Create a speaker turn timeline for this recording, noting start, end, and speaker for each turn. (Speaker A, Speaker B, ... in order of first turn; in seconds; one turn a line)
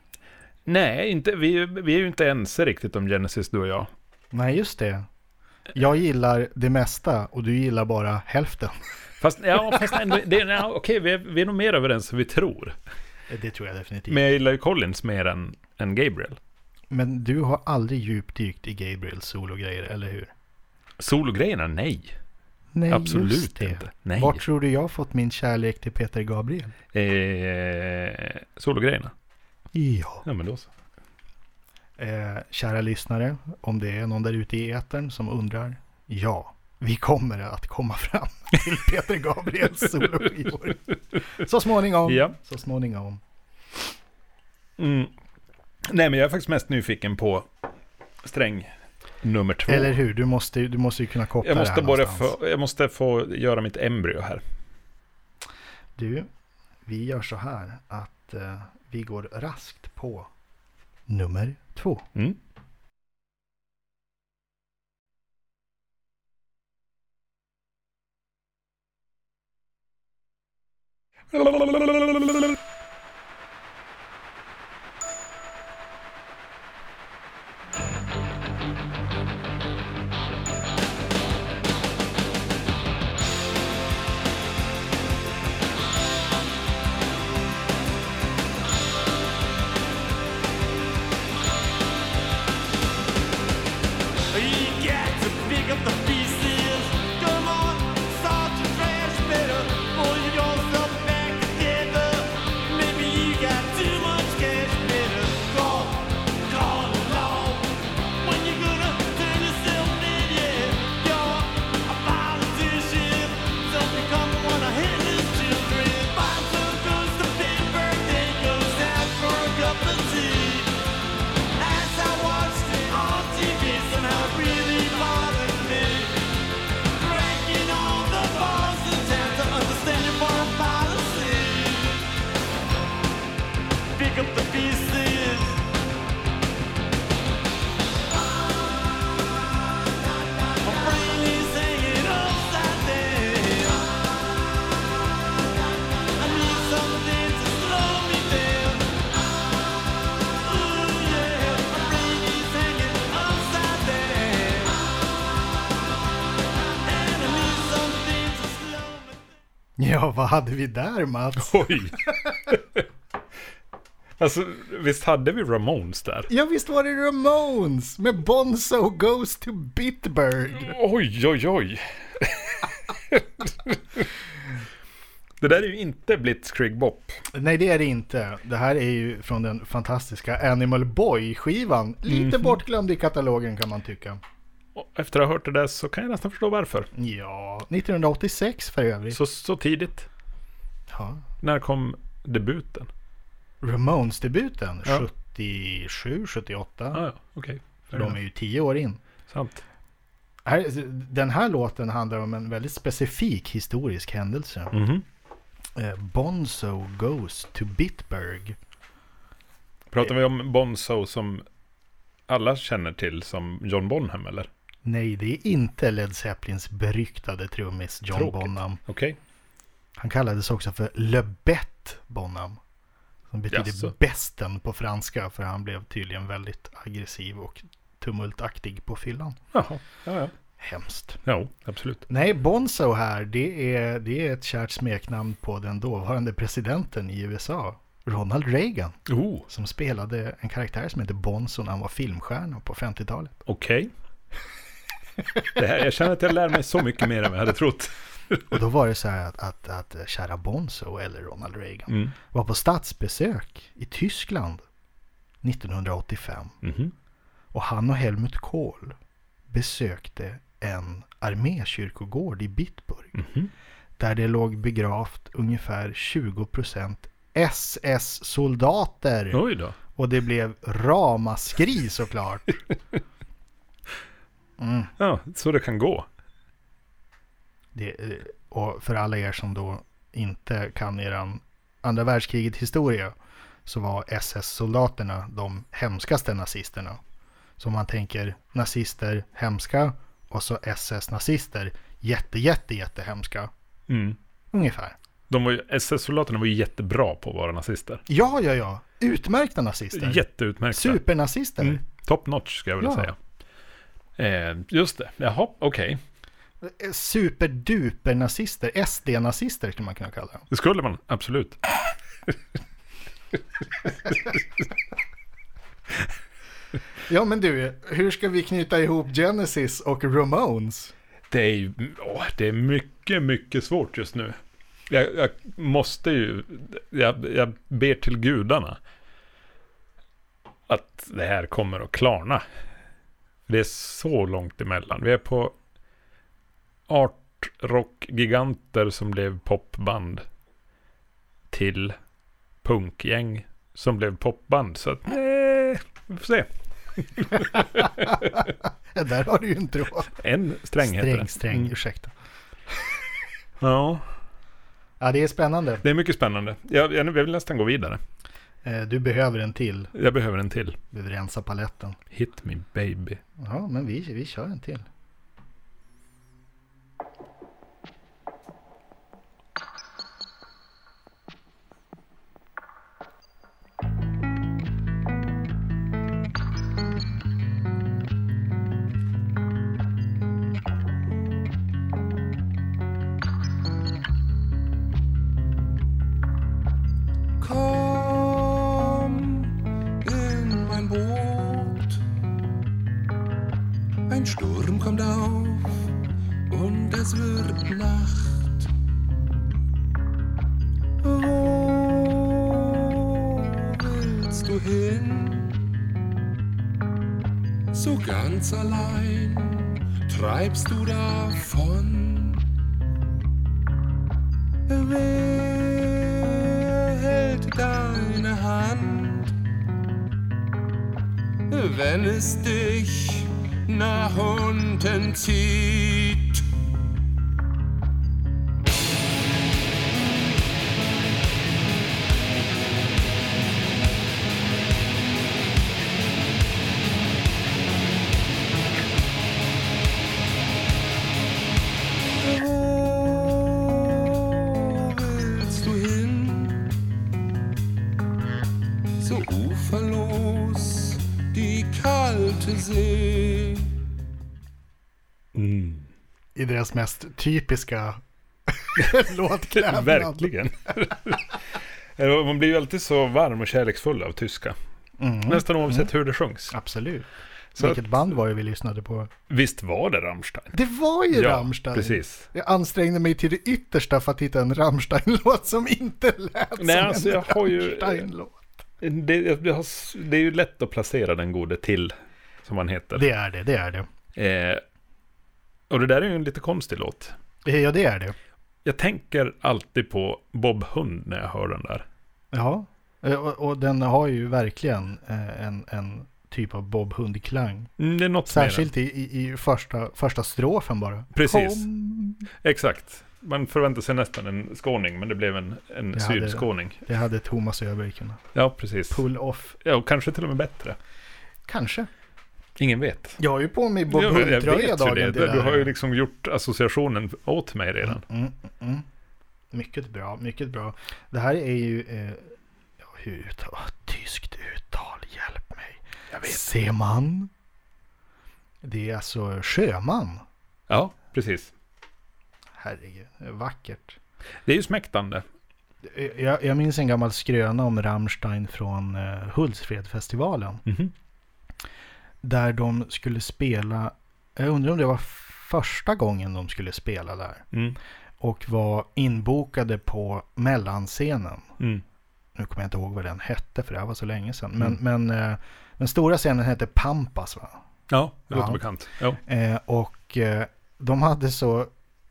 Speaker A: 0.7-3.9
Speaker B: 4.3-5.0
Speaker B: 5.7-8.8
Speaker A: 9.2-12.8
Speaker B: 13.3-14.2
Speaker A: 14.1-16.4
Speaker B: 16.9-20.3
Speaker A: 21.0-22.1
Speaker B: 22.7-26.7
Speaker A: 22.9-24.4
Speaker A: 26.9-29.1
Speaker B: 29.7-30.2
Speaker A: 30.2-30.7
Speaker B: 32.0-43.2
Speaker A: 42.0-42.4
Speaker A: 44.8-45.1
Speaker A: 45.9-47.5
Speaker A: 48.2-48.7
Speaker A: 49.2-50.0
Speaker B: 49.7-52.3
Speaker A: 51.4-54.4
Speaker B: 56.0-56.3
Speaker B: 56.9-60.3
Speaker B: 61.1-62.0
Speaker A: 71.3-72.5
Speaker C: 94.3-120.7
Speaker C: 121.6-126.1
Speaker C: 126.9-132.0
Speaker C: 133.9-135.6
Speaker C: 140.6-143.9
Speaker C: 146.2-148.9
Speaker C: 150.4-154.8
Speaker C: 156.9-159.3
Speaker B: 159.8-162.5
Speaker A: 161.4-162.8
Speaker A: 164.2-166.3
Speaker B: 166.3-170.8
Speaker A: 170.6-174.1
Speaker A: 175.4-177.2
Speaker B: 177.3-184.2
Speaker A: 182.1-182.6
Speaker A: 184.8-186.9
Speaker B: 186.9-189.2
Speaker A: 189.1-190.1
Speaker B: 190.9-191.2
Speaker A: 191.4-192.9
Speaker B: 193.6-197.0
Speaker A: 196.9-198.2
Speaker B: 197.9-199.0
Speaker A: 199.3-199.6
Speaker B: 200.4-204.8
Speaker A: 204.7-205.0
Speaker B: 205.8-208.6
Speaker A: 209.9-211.4
Speaker A: 212.3-214.5
Speaker B: 214.8-218.8
Speaker A: 218.1-219.2
Speaker B: 220.0-222.6
Speaker B: 223.3-229.4
Speaker A: 223.5-223.9
Speaker A: 229.5-230.3
Speaker B: 230.6-231.2
Speaker A: 231.2-232.0
Speaker B: 232.1-239.0
Speaker A: 239.1-239.5
Speaker B: 239.5-243.4
Speaker A: 243.5-243.9
Speaker A: 245.5-248.4
Speaker B: 248.5-254.6
Speaker A: 251.9-252.1
Speaker B: 255.4-256.6
Speaker A: 256.6-256.9
Speaker B: 257.5-259.0
Speaker B: 259.5-263.2
Speaker A: 263.1-263.5
Speaker B: 264.0-269.4
Speaker A: 269.3-269.8
Speaker B: 269.9-272.6
Speaker B: 274.6-274.9
Speaker A: 275.0-276.1
Speaker B: 277.8-283.1
Speaker B: 283.6-287.0
Speaker B: 287.6-293.5
Speaker A: 293.9-294.2
Speaker B: 294.5-295.0
Speaker A: 295.3-298.0
Speaker B: 298.1-301.8
Speaker A: 299.9-301.0
Speaker A: 301.6-303.1
Speaker B: 302.8-303.1
Speaker A: 304.2-306.0
Speaker B: 306.6-310.5
Speaker A: 310.5-311.6
Speaker A: 314.1-314.4
Speaker B: 317.1-320.9
Speaker A: 321.3-324.4
Speaker A: 324.9-328.8
Speaker A: 330.7-332.4
Speaker A: 333.5-335.5
Speaker A: 336.9-340.2
Speaker A: 341.5-341.9
Speaker A: 342.6-348.4
Speaker B: 347.8-350.1
Speaker A: 350.1-351.7
Speaker B: 350.8-352.1
Speaker A: 353.6-354.0
Speaker B: 355.0-355.9
Speaker A: 355.8-358.0
Speaker B: 358.6-359.9
Speaker A: 359.9-360.8
Speaker B: 360.9-362.0
Speaker A: 362.1-363.2
Speaker B: 363.4-364.9
Speaker D: 387.4-392.0
Speaker D: 394.1-395.9
Speaker D: 396.5-398.7
Speaker D: 401.0-405.7
Speaker D: 407.7-412.5
Speaker D: 414.7-419.4
Speaker D: 421.5-426.5
Speaker D: 442.2-446.8
Speaker D: 449.0-453.7
Speaker A: 455.3-455.9
Speaker B: 456.4-458.0
Speaker B: 458.5-460.3
Speaker A: 459.5-461.4
Speaker A: 462.0-464.6
Speaker B: 465.0-465.9
Speaker A: 465.3-466.5
Speaker B: 466.5-469.1
Speaker A: 467.6-468.0
Speaker A: 469.3-470.5
Speaker B: 470.5-478.6
Speaker A: 471.1-472.3
Speaker A: 476.6-478.0
Speaker A: 478.8-481.9
Speaker A: 482.4-483.1
Speaker B: 482.9-483.9
Speaker A: 484.1-484.6
Speaker A: 485.7-487.1
Speaker B: 487.4-488.1
Speaker A: 488.6-491.9
Speaker B: 492.3-497.7
Speaker A: 497.8-498.7
Speaker B: 498.3-502.2
Speaker A: 501.1-501.7
Speaker A: 502.4-506.8
Speaker B: 505.9-508.2
Speaker A: 508.3-509.1
Speaker B: 508.9-509.6
Speaker A: 509.6-510.8
Speaker B: 511.5-511.9
Speaker A: 512.6-513.2
Speaker B: 513.2-515.7
Speaker A: 513.9-518.0
Speaker B: 517.8-518.9
Speaker B: 519.5-527.3
Speaker A: 526.1-526.4
Speaker B: 528.6-530.2
Speaker A: 530.7-531.5
Speaker B: 532.6-534.0
Speaker A: 534.5-535.2
Speaker B: 535.8-540.6
Speaker A: 540.6-540.9
Speaker B: 542.2-547.4
Speaker B: 548.2-551.5
Speaker B: 552.4-557.6
Speaker A: 557.9-559.2
Speaker B: 558.3-558.6
Speaker B: 559.2-561.7